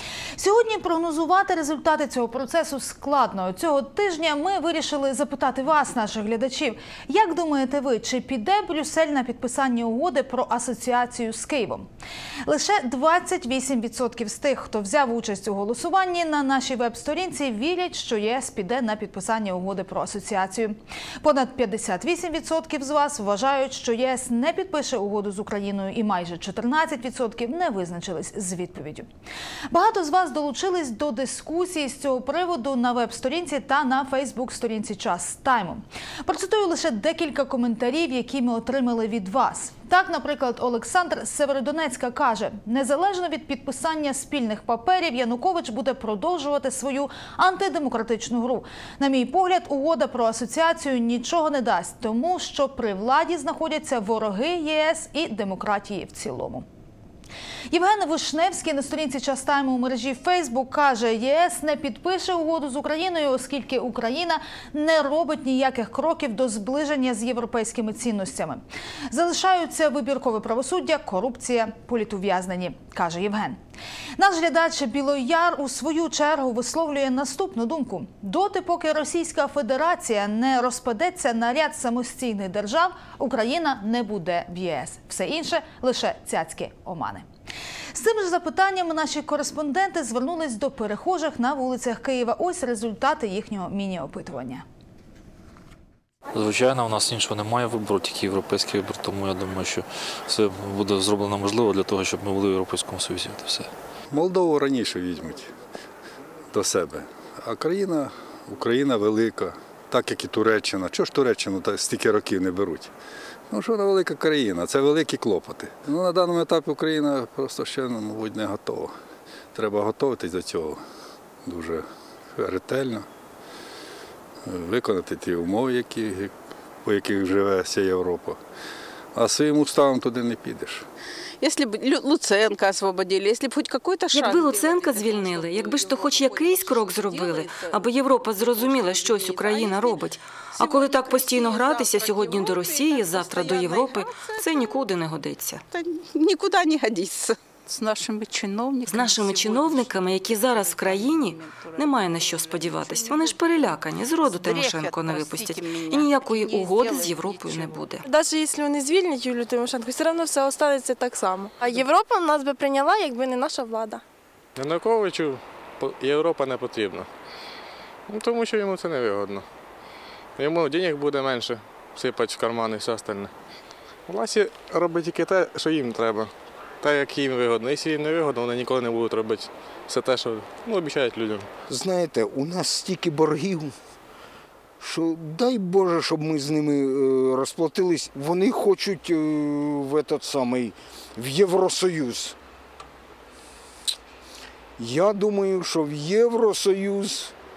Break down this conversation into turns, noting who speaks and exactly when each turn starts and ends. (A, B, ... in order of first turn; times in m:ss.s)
0:00.4-0:11.9 A
0:12.4-0:29.0 A
0:29.7-0:56.6 A
0:57.7-1:13.6 A
1:14.2-1:27.2 A
1:27.9-1:34.6 A
1:36.3-1:43.7 B
1:44.1-1:45.5 C
1:46.5-1:52.9 C
1:53.5-1:58.9 C
1:59.5-2:00.8 C
2:01.4-2:03.0 C
2:04.4-2:06.3 C
2:06.8-2:08.4 C
2:09.1-2:10.8 C
2:11.4-2:17.8 D
2:14.1-2:25.6 E
2:18.4-2:20.0 D
2:20.6-2:24.8 D
2:25.7-2:33.4 D
2:28.9-2:38.0 E
2:34.2-2:37.9 D
2:38.0-2:44.0 F
2:44.6-2:47.0 G
2:48.1-2:49.4 G
2:50.4-2:53.3 G
2:54.1-2:56.3 G
2:56.8-3:01.4 G
3:01.7-3:03.7 H
3:04.8-3:12.4 H
3:14.8-3:17.3 H